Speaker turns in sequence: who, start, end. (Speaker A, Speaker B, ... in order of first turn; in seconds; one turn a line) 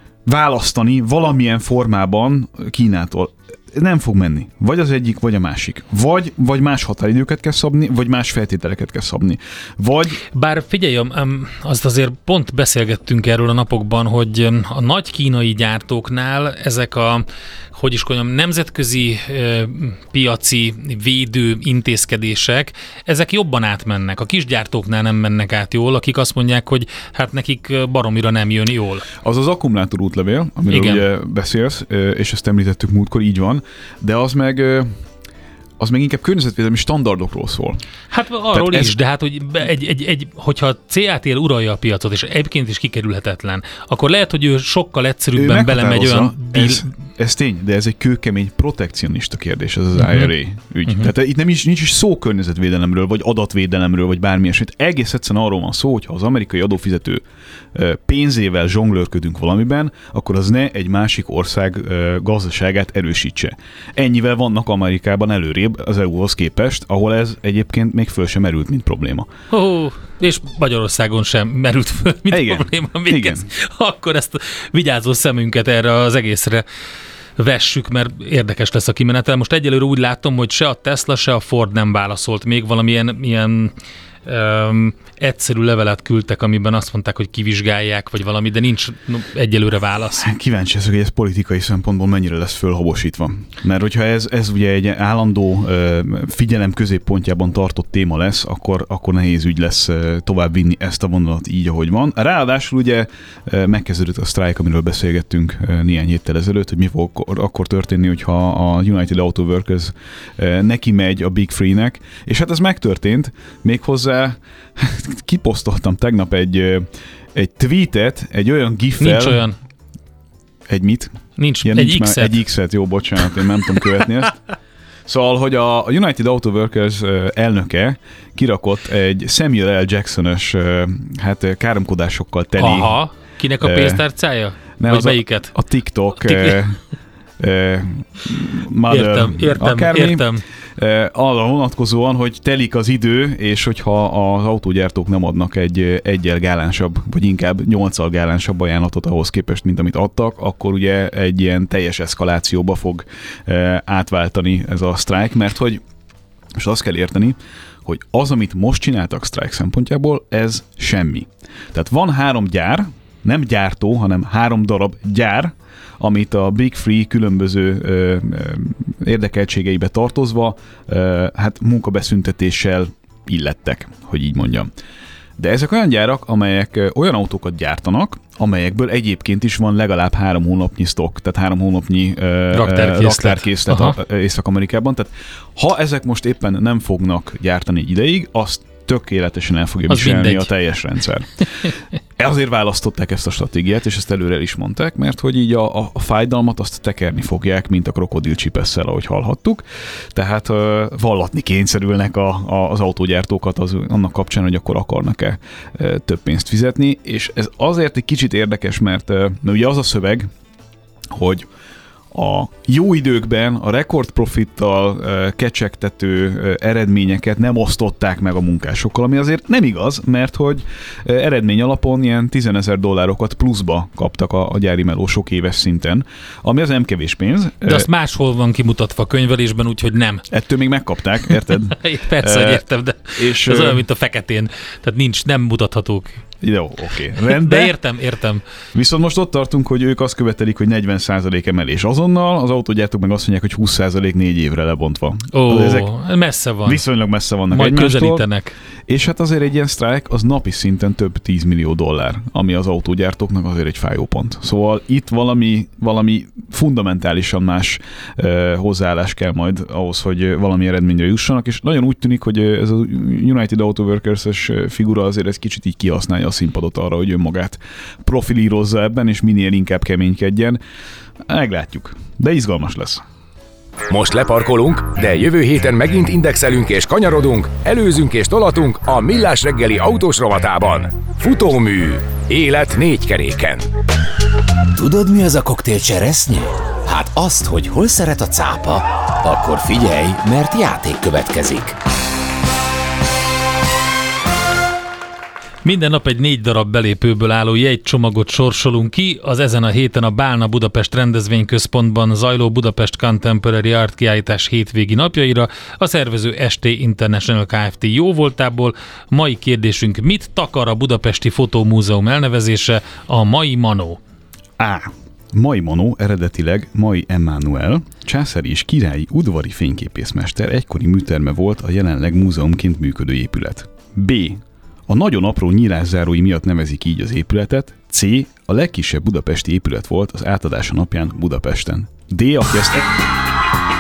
Speaker A: 0.2-10.2
Speaker B: 10.3-29.1
Speaker A: 29.2-34.9
Speaker B: 30.7-31.0
Speaker A: 35.8-37.8
Speaker B: 38.1-46.8
Speaker A: 38.5-39.0
Speaker A: 45.4-69.3
Speaker B: 50.0-50.3
Speaker B: 69.5-76.7
Speaker A: 72.3-73.5
Speaker B: 77.4-83.7
Speaker B: 84.3-90.3
Speaker A: 90.2-119.4
Speaker B: 119.0-119.6
Speaker A: 120.7-124.4
Speaker B: 121.4-122.4
Speaker A: 125.1-133.0
Speaker B: 132.6-135.6
Speaker A: 133.6-134.1
Speaker A: 134.8-136.8
Speaker B: 136.2-136.6
Speaker A: 137.4-155.8
Speaker B: 138.9-140.4
Speaker A: 156.6-174.7
Speaker A: 175.4-210.3
Speaker B: 182.5-184.0
Speaker B: 189.9-190.5
Speaker A: 211.1-211.5
Speaker A: 212.1-227.9
Speaker B: 227.7-230.3
Speaker A: 230.3-233.8
Speaker B: 231.7-236.2
Speaker A: 236.4-237.8
Speaker B: 237.2-238.4
Speaker A: 238.7-245.9
Speaker B: 245.3-246.8
Speaker A: 246.7-248.3
Speaker B: 247.5-248.6
Speaker A: 248.9-270.6
Speaker A: 271.3-273.0
Speaker C: 273.9-283.7
Speaker D: 284.7-291.8
Speaker B: 295.6-314.0
Speaker A: 314.6-333.0